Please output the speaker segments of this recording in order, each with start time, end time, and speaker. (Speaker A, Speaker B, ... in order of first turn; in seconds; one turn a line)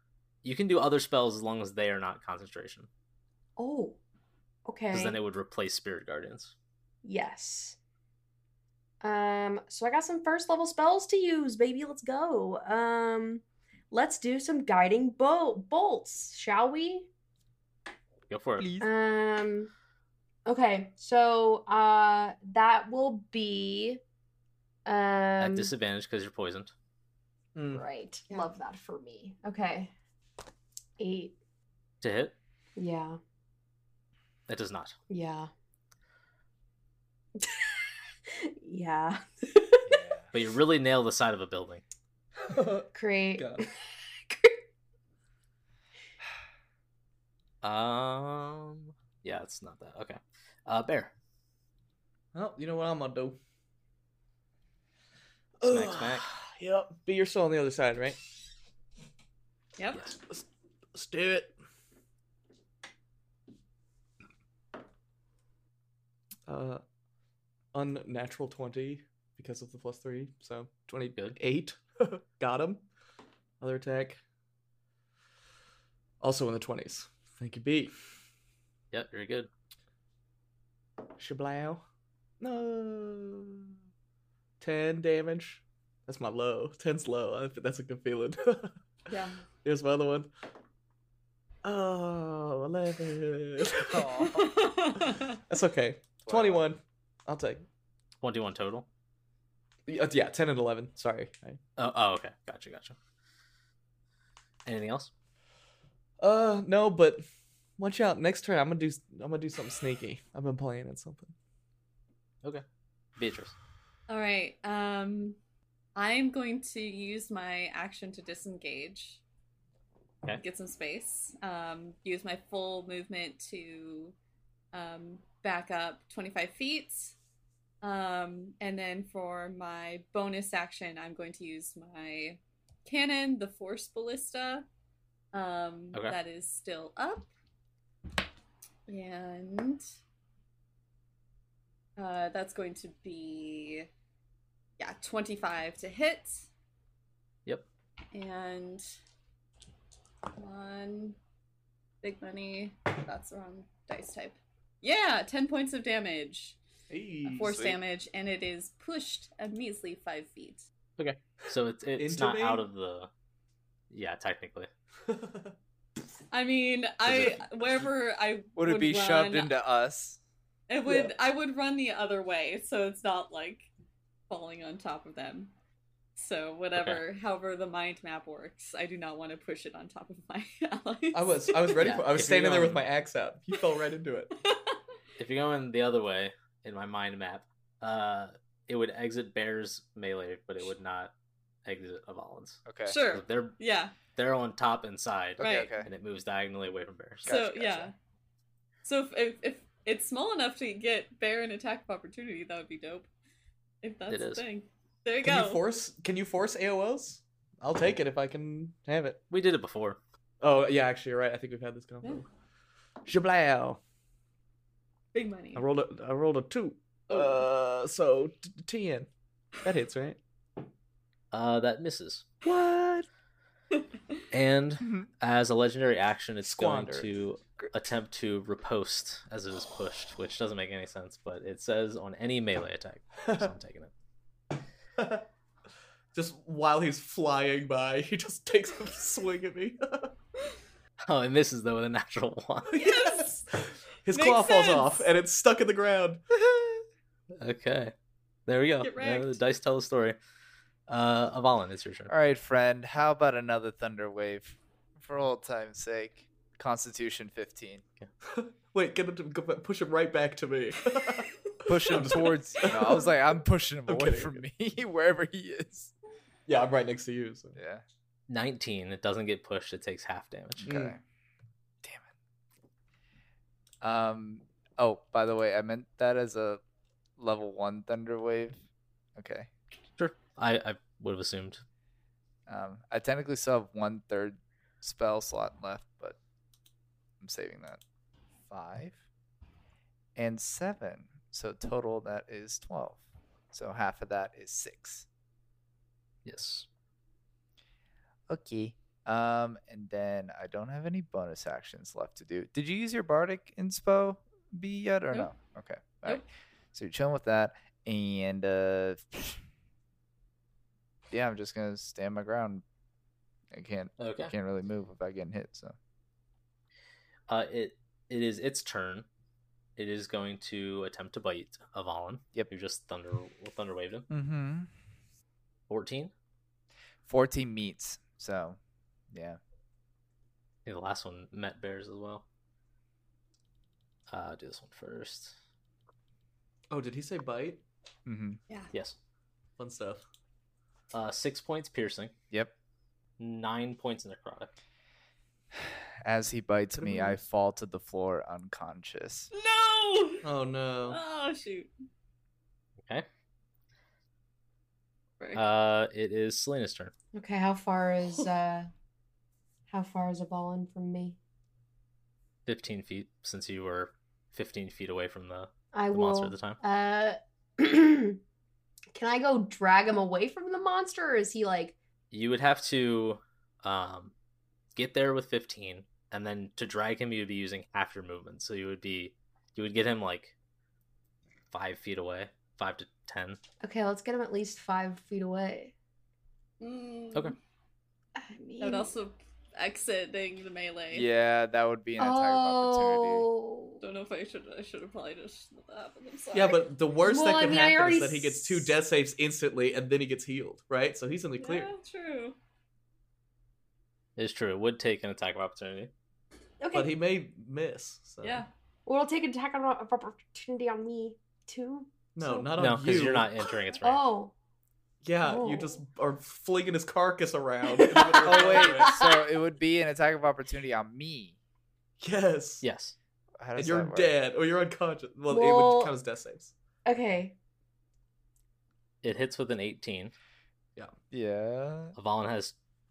Speaker A: 0.4-2.9
Speaker B: 3.6-4.0
Speaker B: 4.7-5.2
Speaker A: 4.9-6.5
Speaker B: 7.0-7.8
Speaker B: 9.0-17.1
Speaker A: 18.3-18.7
Speaker C: 18.6-18.9
Speaker B: 18.8-19.7
Speaker B: 20.4-24.0
Speaker B: 24.9-25.7
Speaker A: 25.4-26.7
Speaker D: 27.5-27.8
Speaker B: 27.7-29.9
Speaker B: 31.0-31.3
Speaker A: 32.0-32.3
Speaker B: 32.8-33.2
Speaker A: 34.5-35.0
Speaker B: 35.1-35.5
Speaker B: 37.4-40.0
Speaker C: 39.9-40.3
Speaker A: 40.3-41.8
Speaker D: 42.4-43.6
Speaker B: 42.9-43.7
Speaker B: 44.3-44.5
Speaker A: 47.6-51.1
Speaker D: 52.3-53.4
Speaker D: 55.6-58.2
Speaker A: 55.6-56.3
Speaker E: 59.8-60.1
Speaker D: 60.2-61.5
Speaker D: 66.5-66.8
Speaker D: 67.7-72.8
Speaker D: 73.6-74.2
Speaker D: 76.2-78.0
Speaker A: 78.9-79.5
Speaker D: 81.2-81.8
Speaker D: 82.4-83.7
Speaker D: 84.6-88.8
Speaker E: 89.1-89.4
Speaker D: 89.6-90.3
Speaker D: 91.6-94.1
Speaker C: 93.9-94.6
Speaker E: 94.2-95.4
Speaker D: 95.5-97.6
Speaker C: 96.2-96.6
Speaker A: 98.2-98.9
Speaker D: 99.9-101.6
Speaker A: 101.8-103.0
Speaker A: 104.7-105.1
Speaker D: 106.2-107.2
Speaker D: 107.8-111.3
Speaker A: 113.2-113.5
Speaker E: 114.1-115.4
Speaker E: 116.0-119.2
Speaker E: 120.4-124.1
Speaker E: 124.7-127.1
Speaker E: 127.8-134.7
Speaker E: 135.3-137.3
Speaker A: 135.9-136.2
Speaker E: 138.9-139.8
Speaker E: 142.0-143.9
Speaker E: 144.8-146.4
Speaker E: 148.1-148.8
Speaker E: 150.3-151.2
Speaker E: 152.0-156.6
Speaker D: 156.9-157.7
Speaker C: 157.3-157.8
Speaker E: 157.3-160.7
Speaker A: 161.0-163.1
Speaker D: 162.0-162.6
Speaker A: 163.9-164.7
Speaker D: 165.1-165.5
Speaker E: 166.3-169.5
Speaker A: 167.0-167.4
Speaker C: 168.6-170.2
Speaker E: 170.7-173.7
Speaker D: 170.8-171.1
Speaker E: 174.3-175.5
Speaker E: 176.2-182.0
Speaker A: 176.7-177.0
Speaker D: 181.1-184.3
Speaker A: 181.8-182.8
Speaker E: 184.4-184.8
Speaker A: 185.2-191.1
Speaker A: 191.6-193.6
Speaker C: 192.7-193.0
Speaker E: 192.9-193.9
Speaker A: 194.2-197.3
Speaker E: 195.4-195.7
Speaker C: 195.4-195.9
Speaker C: 197.2-197.9
Speaker E: 197.2-197.9
Speaker E: 198.8-203.1
Speaker E: 203.8-205.6
Speaker A: 204.1-204.4
Speaker D: 205.2-209.2
Speaker A: 209.3-210.0
Speaker D: 210.4-212.2
Speaker D: 213.0-213.8
Speaker E: 215.1-215.7
Speaker D: 215.5-219.1
Speaker E: 217.1-217.5
Speaker D: 219.6-220.2
Speaker A: 221.3-222.2
Speaker C: 222.5-223.0
Speaker D: 222.5-223.0
Speaker A: 224.3-233.9
Speaker D: 226.4-227.1
Speaker D: 235.0-235.2
Speaker D: 236.1-240.1
Speaker A: 241.1-242.7
Speaker D: 242.7-246.2
Speaker E: 242.8-243.3
Speaker E: 244.1-245.1
Speaker C: 246.3-246.8
Speaker A: 247.4-247.9
Speaker A: 248.5-250.2
Speaker E: 248.8-249.4
Speaker A: 250.9-252.1
Speaker C: 252.1-257.8
Speaker D: 258.2-263.1
Speaker C: 261.7-265.9
Speaker D: 263.9-264.4
Speaker D: 266.5-267.6
Speaker C: 267.6-267.8
Speaker A: 268.3-270.7
Speaker D: 270.6-270.9
Speaker C: 270.6-271.0
Speaker C: 271.8-272.1
Speaker C: 273.8-276.6
Speaker C: 277.2-278.6
Speaker C: 279.1-279.5
Speaker A: 280.0-281.6
Speaker C: 282.5-286.2
Speaker C: 287.2-287.8
Speaker C: 288.5-289.0
Speaker C: 290.1-293.0
Speaker C: 293.5-295.1
Speaker A: 296.2-296.7
Speaker C: 298.3-309.4
Speaker C: 311.1-312.6
Speaker C: 313.5-315.7
Speaker A: 314.0-314.3
Speaker A: 317.3-319.1
Speaker A: 319.8-324.1
Speaker C: 324.1-324.7
Speaker A: 325.7-326.1
Speaker C: 327.1-328.6
Speaker C: 329.1-329.4
Speaker A: 330.6-332.2
Speaker A: 334.1-335.3
Speaker D: 336.7-337.6
Speaker C: 338.1-338.4
Speaker D: 339.6-340.0
Speaker A: 340.9-342.1
Speaker A: 343.2-344.5
Speaker C: 345.5-349.3
Speaker D: 346.7-347.2
Speaker E: 349.3-350.3
Speaker D: 350.2-351.0
Speaker E: 350.9-351.7
Speaker E: 355.2-355.4
Speaker A: 355.3-356.9
Speaker B: 357.1-358.7
Speaker B: 359.7-361.2
Speaker A: 362.4-366.6
Speaker B: 365.7-368.2
Speaker B: 368.9-371.8
Speaker A: 372.1-374.1
Speaker A: 374.7-380.3
Speaker A: 381.5-383.4
Speaker B: 383.6-385.7
Speaker E: 386.6-387.3
Speaker B: 388.1-388.9
Speaker E: 388.6-391.1
Speaker C: 390.9-393.3
Speaker B: 392.0-393.8
Speaker E: 393.8-396.7
Speaker D: 396.3-401.7
Speaker B: 397.0-398.7
Speaker E: 401.4-402.4
Speaker A: 404.1-405.9
Speaker B: 406.6-406.9
Speaker D: 406.7-408.4
Speaker E: 408.2-408.5
Speaker B: 408.9-412.5
Speaker D: 412.1-413.4
Speaker A: 412.6-414.0
Speaker B: 413.8-414.3
Speaker D: 415.0-418.9
Speaker B: 415.2-415.8
Speaker B: 417.7-419.3
Speaker C: 418.2-421.4
Speaker D: 422.0-422.6
Speaker A: 422.6-422.9
Speaker C: 423.4-424.1
Speaker D: 423.6-426.5
Speaker B: 425.3-425.9
Speaker B: 426.9-427.4
Speaker A: 429.0-430.1
Speaker C: 431.1-431.9
Speaker A: 431.9-432.5